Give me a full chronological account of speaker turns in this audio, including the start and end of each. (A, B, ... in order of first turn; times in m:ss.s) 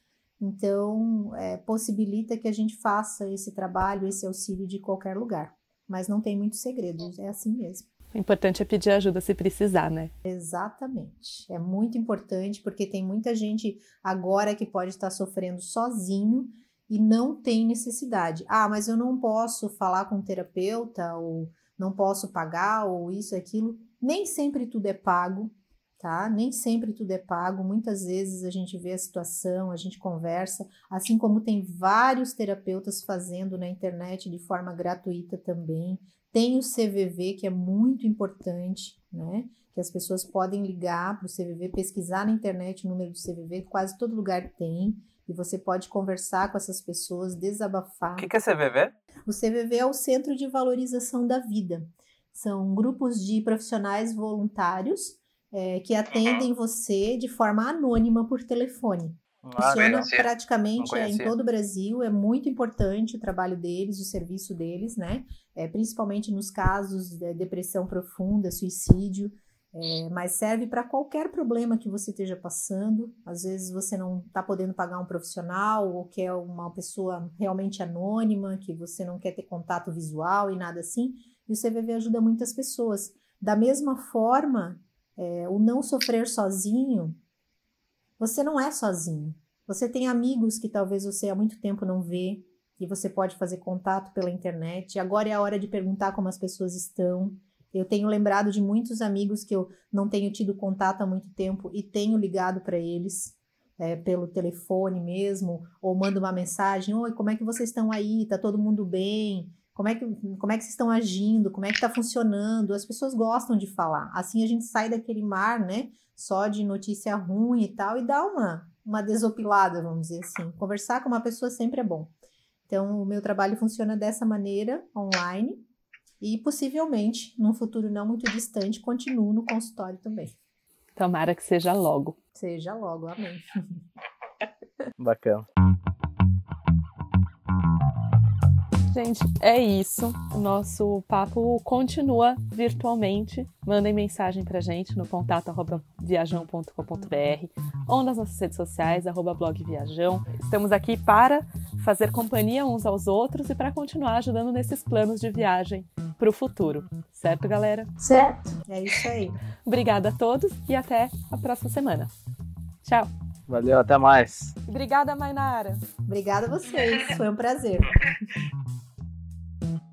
0:00.4-0:07.9 A
0:08.1-0:10.1 B
0:10.2-0:48.3 A
0:48.2-0:48.9 C
0:49.2-1:27.2 A
0:59.4-1:00.3 C
1:00.8-1:01.3 C
1:28.2-2:02.1 A
2:02.7-2:05.6 A
2:06.2-2:10.4 A
2:11.0-2:12.2 B
2:12.3-2:13.8 A
2:15.0-2:15.4 C
2:18.9-2:37.9 B
2:38.0-2:39.4 A
2:39.6-2:42.1 B
2:42.8-2:43.1 B
2:43.5-2:44.5 C
2:44.7-2:45.8 B
2:46.1-2:48.0 A